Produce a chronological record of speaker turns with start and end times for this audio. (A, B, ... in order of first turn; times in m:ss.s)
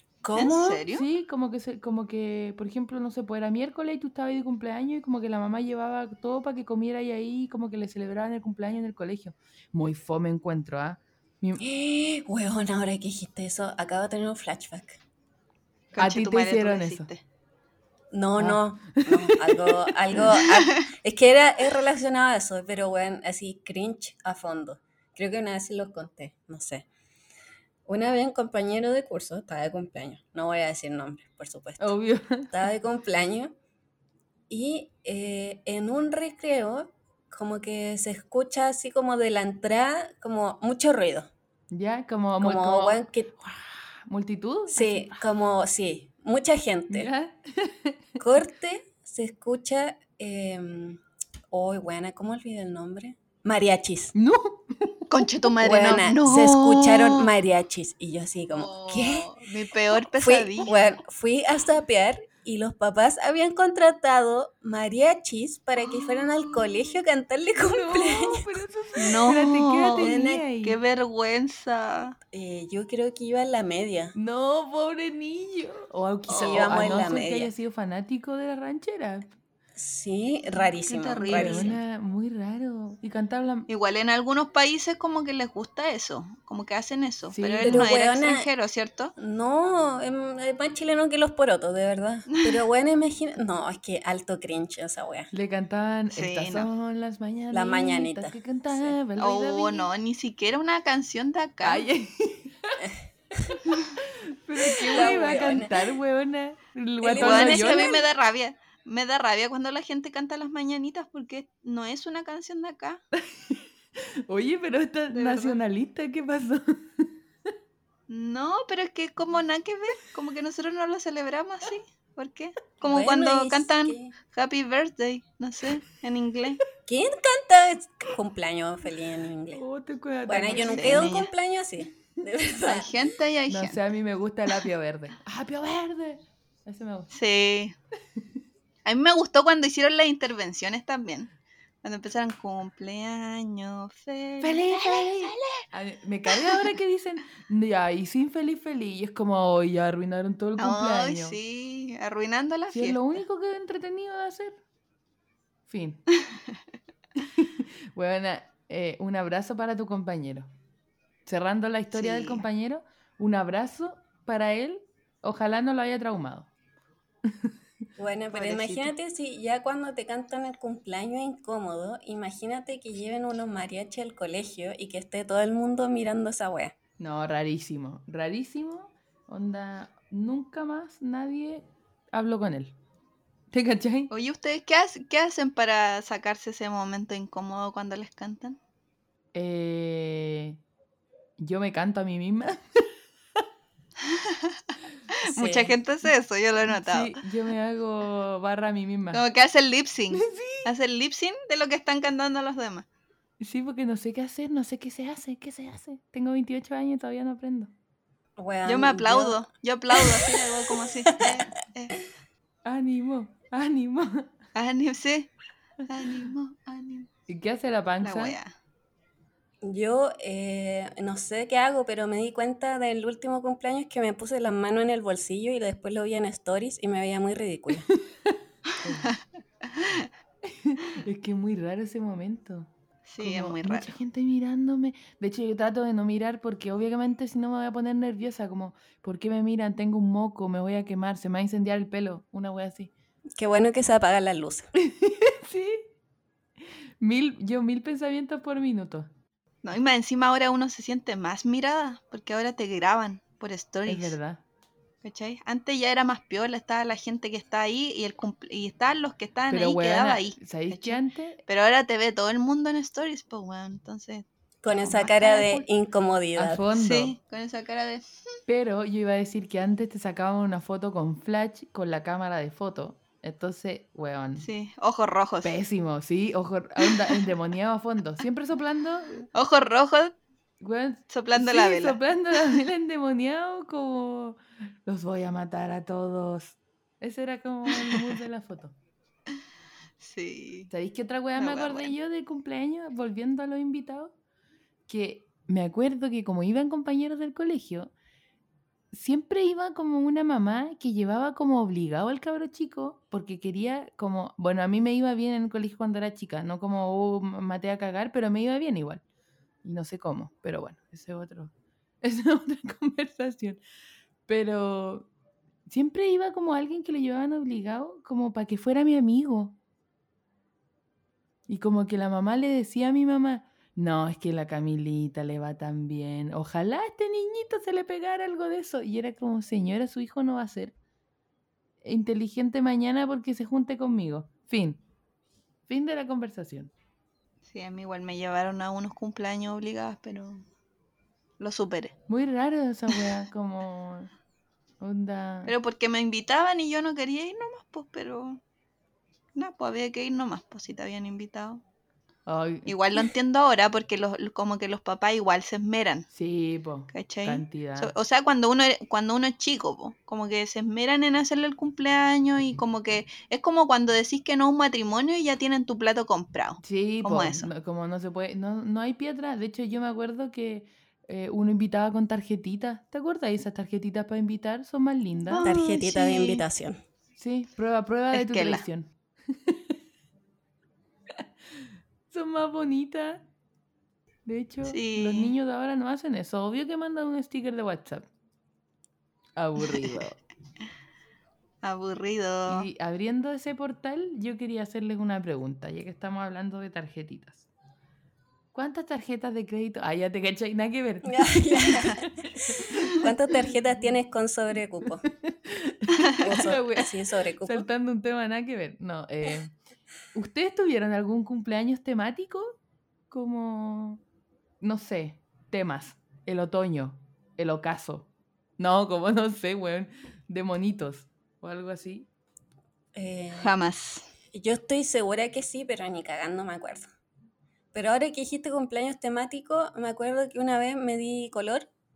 0:00.2-0:00.8 A
0:00.4-0:01.1 B
0:00.9-0:11.6 C
0:11.6-0:15.0 A
0:15.9-0:17.2 B
0:16.0-0:17.1 C
0:18.1-0:26.9 A
0:18.4-0:19.9 C
0:27.9-0:32.0 A
0:31.8-0:32.6 C
0:32.5-0:33.5 A
0:34.5-0:41.3 A
0:41.7-0:45.3 C
0:42.4-0:43.3 A
0:44.7-0:47.1 A
0:46.9-0:48.2 C
0:48.2-0:54.1 A
0:54.2-0:55.0 C
0:55.1-0:57.3 B
0:55.6-0:59.3 A
0:58.5-1:00.7 B
1:00.0-1:10.5 A
1:05.9-1:06.5 B
1:07.6-1:10.8 C
1:09.0-1:12.2 B
1:12.3-1:14.2 A
1:14.2-1:19.3 C
1:16.3-1:17.0 B
1:16.4-1:17.5 A
1:19.8-1:21.8 A
1:20.8-1:21.8 B
1:21.3-1:23.7 C
1:23.7-1:29.1 B
1:27.3-1:27.9 C
1:27.6-1:28.5 A
1:29.2-1:35.3 A
1:32.3-1:32.6 B
1:35.3-1:39.9 C
1:36.1-1:36.7 B
1:37.5-1:39.0 A
1:39.2-1:41.9 B
1:41.6-1:42.8 C
1:42.8-1:43.6 A
1:44.0-1:48.0 C
1:44.8-1:46.0 A
1:47.0-1:48.0 A
1:47.2-1:53.0 B
1:53.2-1:57.1 C
1:55.1-1:55.6 B
1:58.1-2:06.6 B
2:02.8-2:04.1 A
2:06.9-2:09.6 A
2:09.5-2:11.1 C
2:10.3-2:13.0 A
2:10.6-2:11.3 B
2:12.6-2:13.8 B
2:13.5-2:17.1 C
2:17.1-2:17.8 B
2:18.8-2:21.3 B
2:21.8-2:25.6 B
2:24.4-2:31.4 C
2:26.3-2:26.6 B
2:30.6-2:33.2 B
2:32.7-2:34.6 C
2:35.7-2:36.0 C
2:37.2-2:40.5 C
2:41.3-2:46.5 C
2:47.3-2:47.5 C
2:48.0-2:56.8 A
2:48.3-2:48.9 B
2:57.0-3:02.8 C
3:03.5-3:04.1 C
3:04.1-3:08.6 B
3:09.3-3:10.6 C
3:11.4-3:12.9 C
3:14.1-3:17.2 B
3:15.3-3:15.8 A
3:16.7-3:19.2 C
3:19.1-3:22.9 B
3:20.1-3:20.7 C
3:23.4-3:27.7 C
3:28.4-3:30.5 A
3:28.6-3:32.0 B
3:32.6-3:34.3 C
3:34.5-3:35.3 B
3:35.9-3:37.1 B
3:37.3-3:38.4 C
3:38.0-3:38.5 B
3:39.6-3:47.9 A
3:48.8-3:49.1 C
3:49.8-3:50.1 B
3:50.5-3:52.7 C
3:53.1-3:54.0 B
3:53.2-4:02.9 C
4:03.4-4:04.7 A
4:04.8-4:05.9 C
4:07.0-4:09.1 C
4:09.6-4:14.2 B
4:13.9-4:14.4 C
4:15.0-4:25.1 B
4:19.5-4:21.4 C
4:24.6-4:26.6 A
4:24.9-4:25.6 C
4:26.4-4:27.2 C
4:26.8-4:28.1 B
4:28.5-4:34.5 C
4:34.4-4:35.6 B
4:35.4-4:39.3 C
4:36.8-4:37.2 B
4:39.3-4:40.2 B
4:40.6-4:48.8 C
4:41.1-4:42.0 B
4:50.0-4:50.7 B
4:50.7-4:54.1 C
4:51.4-4:51.9 B
4:54.9-4:57.9 C
4:58.9-5:09.0 C
5:09.6-5:13.6 C
5:14.3-5:15.1 C
5:15.7-5:19.6 C
5:21.5-5:30.7 C
5:31.8-5:34.8 C
5:35.7-5:36.7 C
5:37.5-5:40.4 B
5:41.4-5:41.9 B
5:42.1-5:44.1 C
5:44.8-5:45.5 C
5:45.5-5:48.4 B
5:49.4-5:51.6 B
5:52.3-5:53.1 C
5:52.7-5:56.1 B
5:56.1-5:57.9 C
5:56.9-6:07.5 B
6:06.6-6:15.5 C
6:15.3-6:16.4 B
6:15.4-6:16.8 A
6:17.2-6:19.7 C
6:18.1-6:18.6 B
6:22.1-6:23.3 C
6:24.3-6:28.1 C
6:24.7-6:25.3 B
6:29.4-6:30.2 C
6:31.6-6:32.7 B
6:32.5-6:37.5 C
6:38.5-6:43.1 C
6:41.0-6:45.1 A
6:45.2-6:49.5 C
6:46.2-6:47.7 A
6:50.2-6:52.5 C
6:53.1-6:54.0 C
6:54.6-6:58.1 C
6:58.6-7:02.1 C
7:02.9-7:03.5 A
7:03.3-7:04.1 B
7:04.3-7:06.9 A
7:07.7-7:11.7 A